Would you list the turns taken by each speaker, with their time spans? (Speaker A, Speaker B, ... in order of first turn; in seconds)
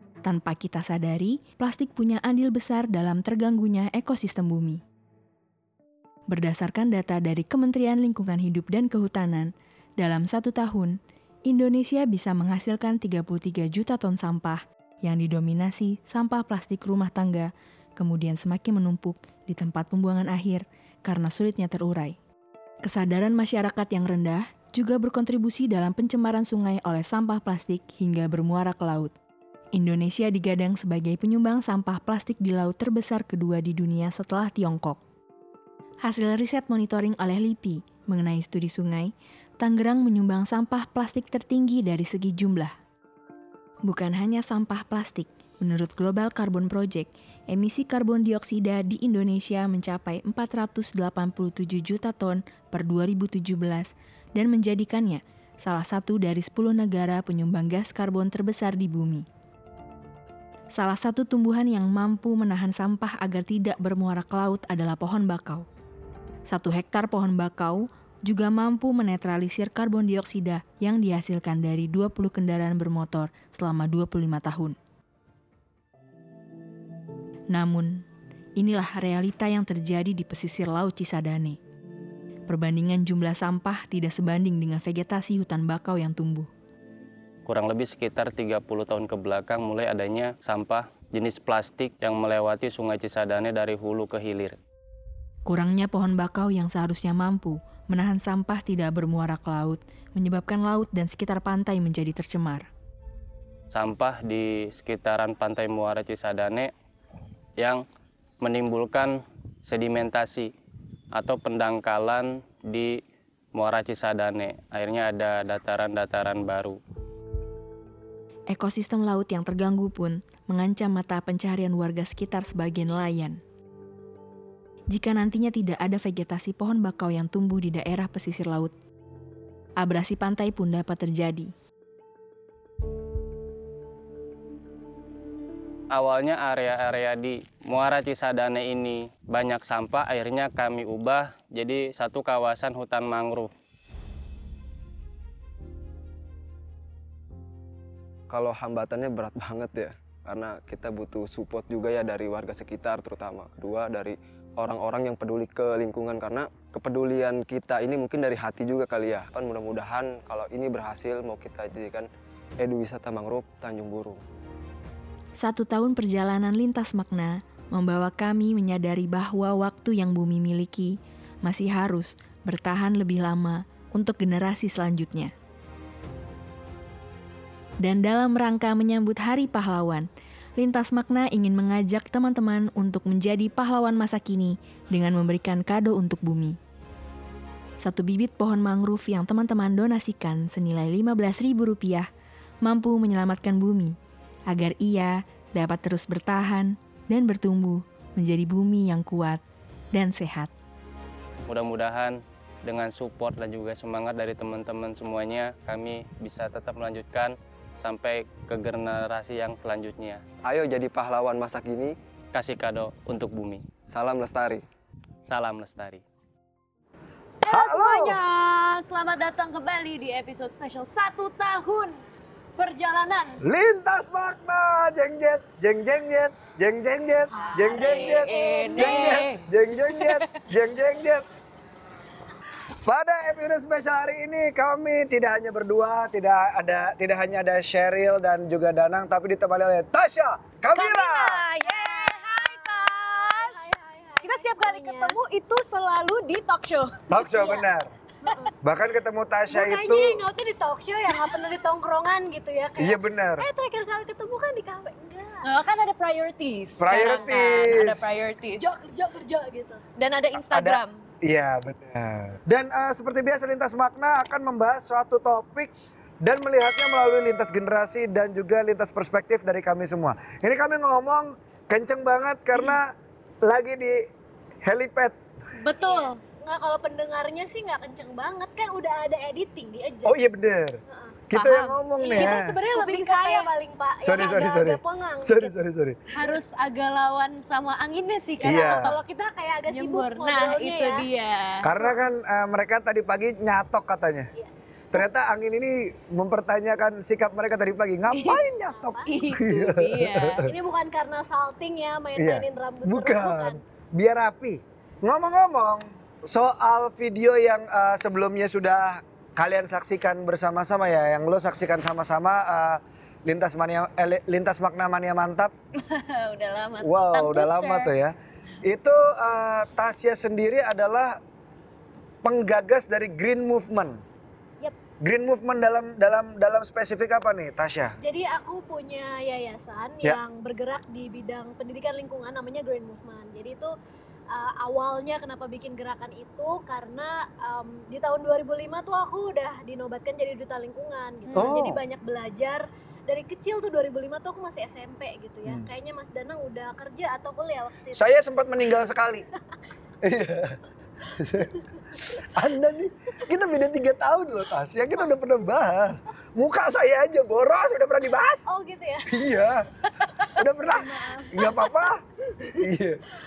Speaker A: 0.2-4.8, 6.3-22.2, 22.8-29.1, 29.7-35.0, 36.0-42.7, 43.8-59.2, 60.7-65.7, 66.5-74.8, 77.5-78.0, 78.6-81.6, 82.5-86.5, 95.5-102.7, 118.5-123.4, 124.9-128.7, 129.8-131.5, 165.4-175.3, 177.8-186.6, 187.8-192.1, 192.6-193.9, 194.5-199.4, 199.9-200.5
Speaker B: 87.5-94.6, 103.7-106.7, 107.6-107.8, 108.4-110.5, 111.1-113.0, 113.5-116.8, 135.9-143.5, 201.5-210.2, 212.3-213.7, 215.2-216.0
Speaker C: 148.3-162.1, 162.6-164.2, 210.4-211.9, 213.9-214.6
Speaker D: 217.4-222.0, 222.6-223.4, 227.4-230.3, 240.7-243.6, 244.2-247.5, 255.4-258.6, 260.0-261.0, 275.6-276.2, 281.3-283.5, 286.1-289.0, 289.7-291.7, 298.1-298.4, 299.1-300.5, 315.8-317.9
Speaker E: 217.5-218.2, 223.4-231.2, 232.8-241.4, 247.1-247.9, 248.6-250.2, 252.8-253.4, 256.8-258.2, 260.3-272.9, 273.4-274.1, 274.6-275.1, 280.0-280.8, 281.3-282.6, 284.0-286.0, 288.4-288.9, 291.6-294.3, 294.9-300.5, 302.2-315.5, 316.8-321.2, 322.2-324.0, 325.0-327.9, 341.4-341.8, 347.9-349.2, 350.0-350.6, 351.2-351.6, 352.2-358.4, 359.1-359.7, 360.3-362.0, 362.6-363.0
Speaker F: 227.3-229.3, 241.6-245.2, 248.2-248.5, 249.5-255.5, 258.6-259.8, 275.8-280.3, 280.9-281.2, 282.0-285.5, 288.4-291.1, 298.7-299.1, 300.4-303.6, 328.0-333.7, 334.3-348.1, 358.5-359.1, 360.6-361.6